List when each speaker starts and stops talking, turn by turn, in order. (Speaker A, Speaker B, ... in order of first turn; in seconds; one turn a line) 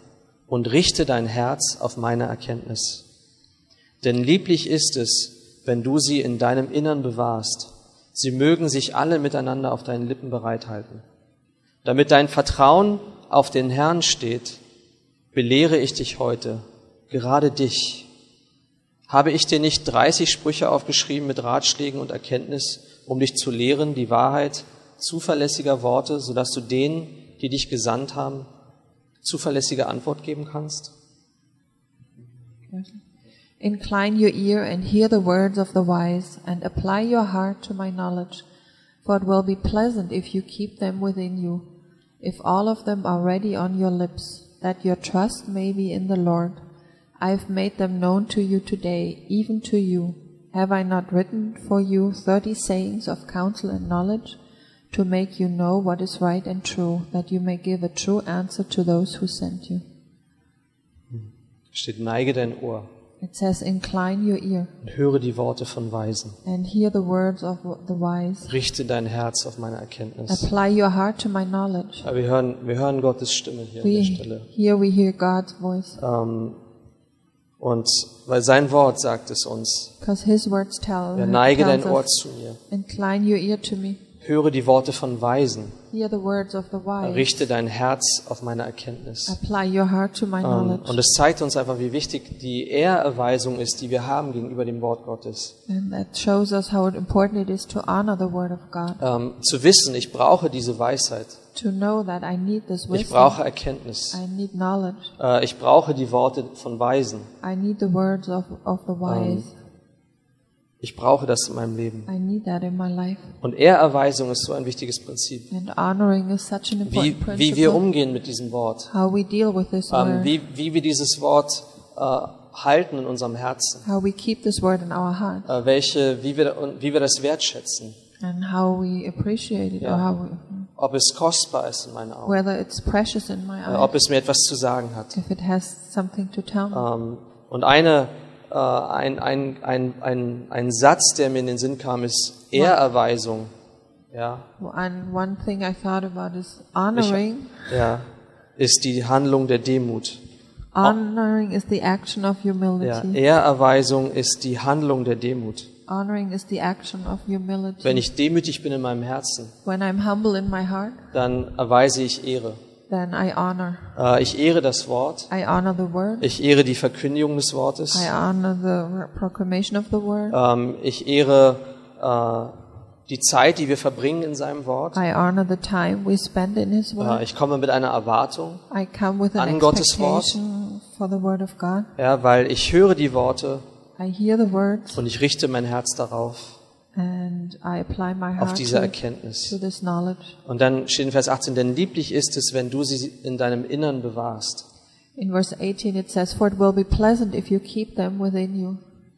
Speaker A: 0.5-3.0
Speaker A: 4.0-11.0
Speaker A: 11.8-14.6
Speaker A: 15.3-18.1
Speaker A: 19.1-28.5
Speaker A: 29.2-30.9
Speaker B: 32.7-33.0
Speaker B: 33.6-38.4
Speaker B: 39.0-41.7
Speaker B: 42.2-46.6
Speaker B: 47.2-54.4
Speaker B: 54.9-59.8
Speaker A: 61.1-62.9
Speaker B: 63.2-64.7
Speaker A: 64.8-66.4
Speaker B: 66.4-68.5
Speaker A: 68.5-70.5
Speaker B: 70.3-72.0
Speaker A: 72.0-74.5
Speaker B: 73.8-76.0
Speaker A: 76.0-76.6
Speaker A: 77.6-79.9
Speaker B: 80.0-82.1
Speaker A: 81.1-82.6
Speaker B: 82.7-84.0
Speaker A: 84.2-85.8
Speaker B: 85.9-87.4
Speaker A: 87.0-89.4
Speaker B: 89.3-91.0
Speaker A: 90.4-95.5
Speaker B: 95.7-99.0
Speaker A: 99.0-101.4
Speaker B: 101.5-103.4
Speaker A: 102.9-104.2
Speaker B: 104.1-105.1
Speaker A: 105.2-107.3
Speaker B: 107.4-109.5
Speaker A: 109.0-109.5
Speaker A: 110.8-112.1
Speaker B: 112.1-113.3
Speaker A: 113.4-115.5
Speaker B: 115.5-117.8
Speaker A: 116.8-118.9
Speaker B: 118.9-120.3
Speaker A: 119.9-123.9
Speaker B: 123.8-125.5
Speaker A: 125.5-128.0
Speaker B: 128.2-130.7
Speaker A: 129.8-130.1
Speaker A: 130.8-132.4
Speaker B: 132.2-133.9
Speaker A: 133.7-135.2
Speaker B: 135.1-136.8
Speaker A: 136.7-143.5
Speaker A: 144.1-144.5
Speaker B: 144.6-147.9
Speaker A: 146.9-150.2
Speaker B: 150.7-153.2
Speaker A: 152.8-155.7
Speaker B: 155.9-158.0
Speaker A: 157.8-159.5
Speaker B: 159.6-161.0
Speaker A: 161.1-162.6
Speaker B: 162.9-164.0
Speaker A: 163.9-165.3
Speaker B: 165.3-166.3
Speaker A: 166.2-168.1
Speaker B: 167.9-170.4
Speaker A: 170.3-172.6
Speaker A: 173.1-175.0
Speaker B: 174.9-177.2
Speaker A: 177.0-178.6
Speaker B: 178.7-181.9
Speaker A: 179.4-180.4
Speaker A: 182.0-183.6
Speaker B: 184.0-185.0
Speaker A: 184.9-186.6
Speaker B: 186.9-190.3
Speaker A: 188.4-189.6
Speaker A: 190.4-194.7
Speaker B: 195.2-198.8